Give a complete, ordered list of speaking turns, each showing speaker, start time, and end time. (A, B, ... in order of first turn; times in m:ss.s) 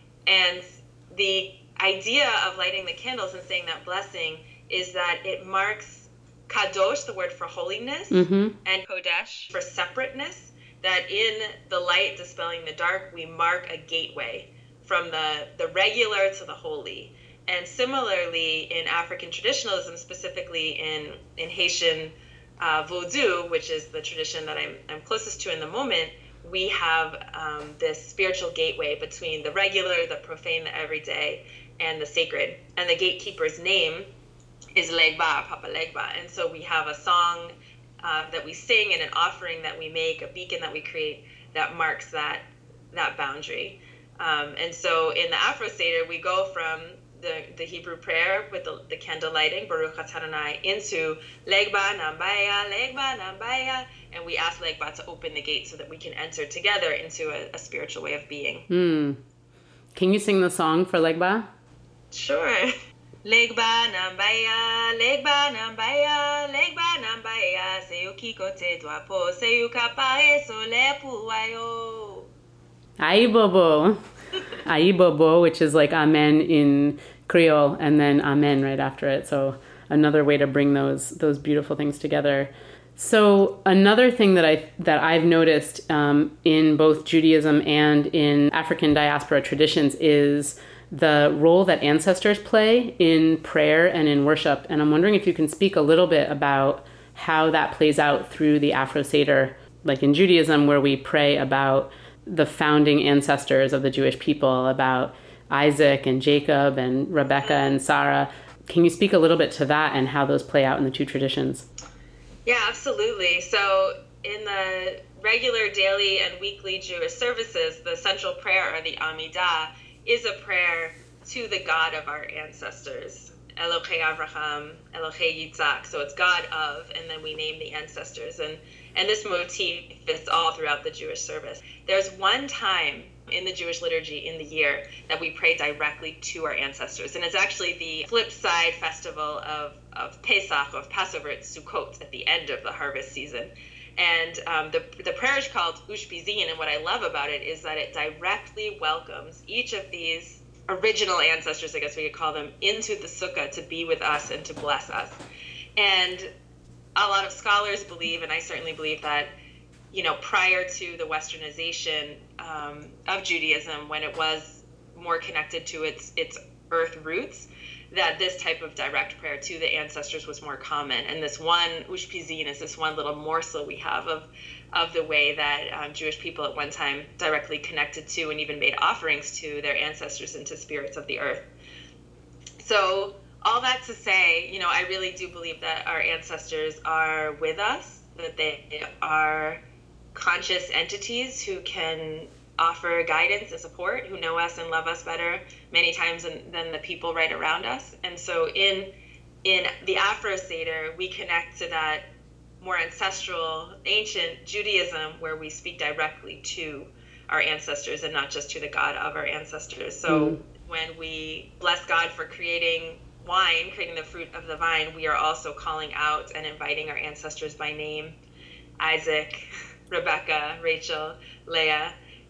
0:00.3-0:34.1 A
0:08.1-0:08.6 B
0:34.8-0:58.6 A
0:58.7-0:59.2 B
1:00.0-1:01.5 B
1:02.1-1:02.7 A
1:03.2-1:12.3 A
1:13.0-1:14.0 B
1:14.6-1:51.7 B
1:47.4-1:47.7 A
1:52.4-2:35.2 A
2:35.8-2:36.3 A
2:37.0-2:39.3 A
2:39.9-3:01.5 A
3:02.6-3:09.6 A
3:10.1-3:18.9 A
3:19.4-3:22.1 A
3:22.6-3:38.2 A
3:30.1-3:30.4 B
3:38.8-3:42.0 A